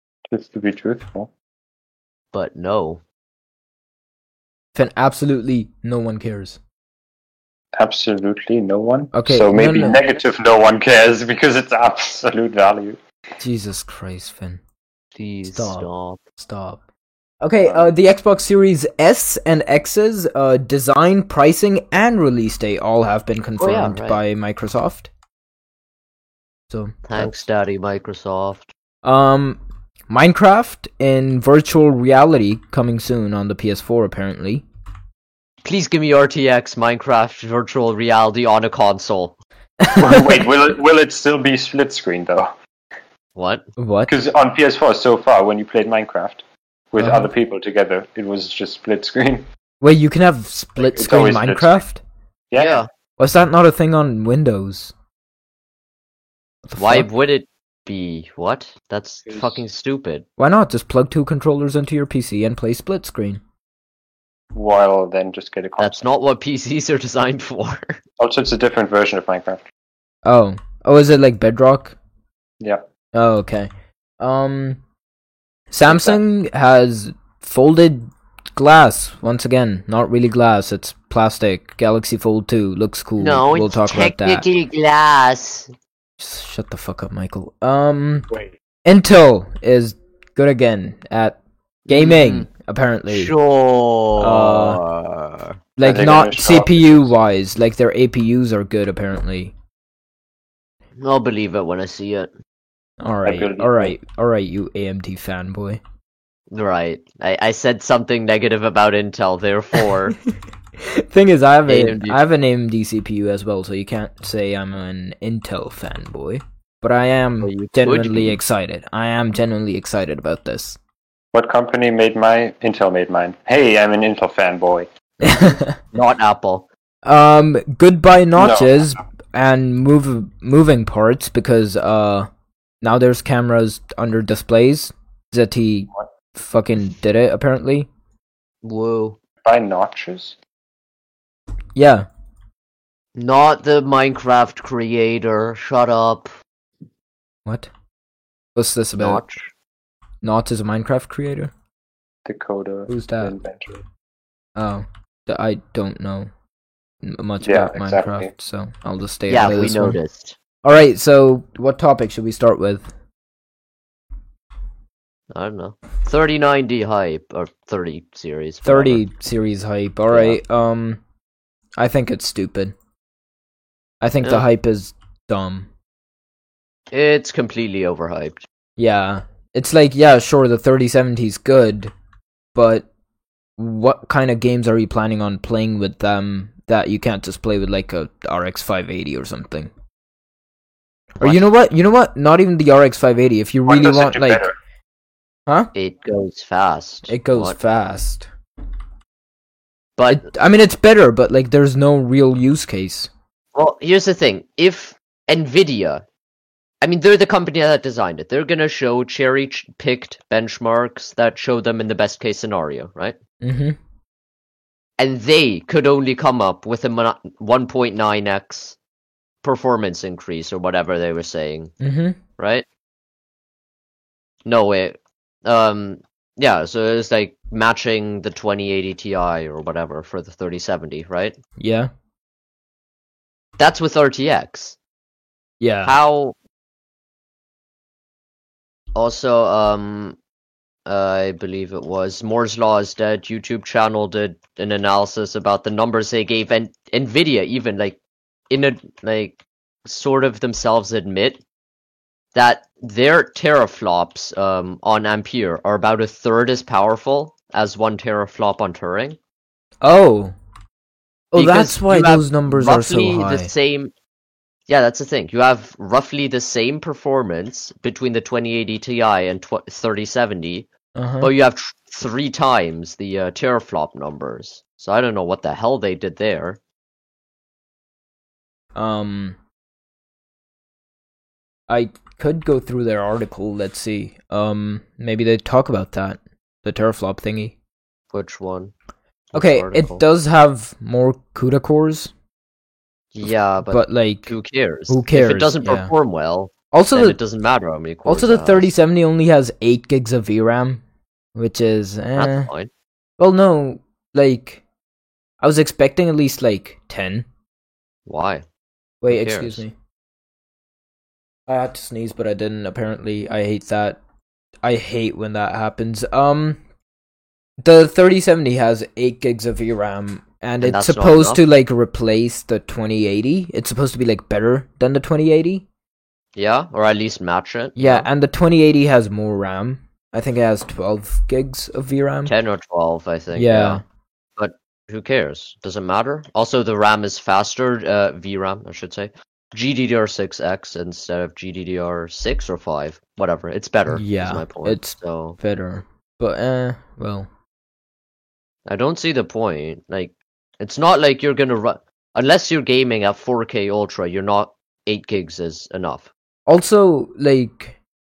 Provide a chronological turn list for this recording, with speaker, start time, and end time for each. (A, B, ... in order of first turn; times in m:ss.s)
0:00.3-0:01.3 A
0:02.3-0:03.0 B
0:04.7-0:06.6 C
0:07.8-0:13.0 A
0:09.1-0:10.0 C
0:13.4-0:14.6 C
0:15.1-0:16.2 B
0:15.5-0:15.8 C
0:16.4-0:16.8 C
0:17.4-0:25.1 C
0:17.6-0:17.9 A
0:23.6-0:24.2 B
0:26.7-0:27.3 C
0:27.1-0:28.7 B
0:29.0-0:34.6 C
0:35.6-0:39.4 B
0:39.8-0:40.4 C
0:39.9-0:42.5 A
0:43.4-0:43.7 B
0:43.8-0:44.1 C
0:44.1-0:49.4 A
0:47.0-0:47.3 C
0:49.8-0:52.0 C
0:50.8-0:51.8 A
0:52.5-0:52.8 A
0:52.6-0:52.9 B
0:53.2-0:54.9 C
0:56.6-0:57.1 C
0:56.8-1:00.2 B
0:59.3-0:59.6 A
1:00.4-1:03.4 C
1:04.5-1:06.0 A
1:05.8-1:08.0 B
1:08.2-1:09.6 A
1:10.2-1:12.0 C
1:13.1-1:13.7 C
1:14.2-1:14.8 C
1:15.7-1:24.5 C
1:23.2-1:25.7 B
1:26.2-1:28.2 C
1:28.8-1:31.4 C
1:31.9-1:32.5 B
1:31.9-1:33.3 C
1:33.1-1:35.6 B
1:34.2-1:34.8 C
1:35.8-1:39.5 C
1:35.8-1:37.1 A
1:41.0-1:42.3 B
1:43.0-1:45.8 C
1:43.2-1:44.0 A
1:46.5-1:50.2 B
1:50.8-2:00.8 C
1:51.7-1:52.2 B
1:57.4-1:58.4 B
2:01.3-2:04.9 A
2:05.2-2:05.8 C
2:05.9-2:06.7 B
2:07.0-2:12.3 C
2:08.4-2:08.9 A
2:12.8-2:17.9 C
2:18.6-2:19.2 B
2:19.4-2:20.4 A
2:21.7-2:22.1 C
2:23.1-2:26.3 B
2:27.4-2:27.7 C
2:28.6-2:29.2 C
2:29.0-2:29.5 B
2:30.2-2:31.5 C
2:32.2-2:33.8 A
2:32.9-2:33.3 C
2:34.6-2:36.3 C
2:37.0-2:40.0 C
2:37.4-2:38.3 A
2:39.3-2:40.4 B
2:40.6-2:42.8 C
2:45.3-2:49.0 B
2:48.6-2:51.0 C
2:50.1-2:50.4 B
2:51.8-2:52.7 C
2:54.0-2:55.7 C
2:56.9-2:58.4 B
2:58.8-3:01.9 C
3:02.5-3:02.9 C
3:03.6-3:09.7 C
3:11.2-3:14.5 C
3:13.6-3:14.5 A
3:15.7-3:17.6 B
3:17.1-3:18.3 C
3:20.0-3:20.2 B
3:20.1-3:23.1 C
3:23.5-3:26.0 B
3:26.8-3:33.2 B
3:33.4-3:33.8 C
3:35.0-3:38.8 B
3:39.4-3:41.7 B
3:41.8-3:42.2 C
3:42.4-3:42.6 B
3:44.4-3:51.4 B
3:51.6-3:51.9 C
3:53.6-3:54.8 B
3:55.6-3:55.9 C
3:55.8-3:56.3 B
3:58.9-4:00.2 B
4:00.8-4:08.0 B
4:08.5-4:11.4 B
4:12.3-4:19.2 B
4:19.8-4:20.3 C
4:21.3-4:23.5 C
4:21.3-4:23.9 B
4:24.7-4:30.7 B
4:30.9-4:31.3 C
4:31.2-4:36.6 B
4:38.7-4:39.4 C
4:41.7-4:47.5 C
4:48.1-4:48.7 B
4:49.3-4:50.0 B
4:49.3-4:52.1 C
4:53.1-4:58.7 B
4:53.2-4:54.3 C
4:54.9-4:55.9 C
4:56.7-4:57.2 C
4:58.1-5:00.8 C
5:01.3-5:02.5 C
5:02.2-5:02.7 B
5:03.2-5:04.6 C
5:05.4-5:07.2 C
5:08.1-5:08.4 B
5:09.0-5:09.7 C
5:09.1-5:09.6 B
5:11.5-5:14.0 C
5:14.6-5:16.6 C
5:17.6-5:25.6 C
5:20.6-5:21.4 B
5:26.3-5:28.1 B
5:27.8-5:32.3 C
5:32.2-5:33.8 B
5:33.3-5:33.8 C
5:34.4-5:45.4 B
5:43.9-5:47.3 C
5:48.7-5:56.1 B
5:56.5-5:57.8 C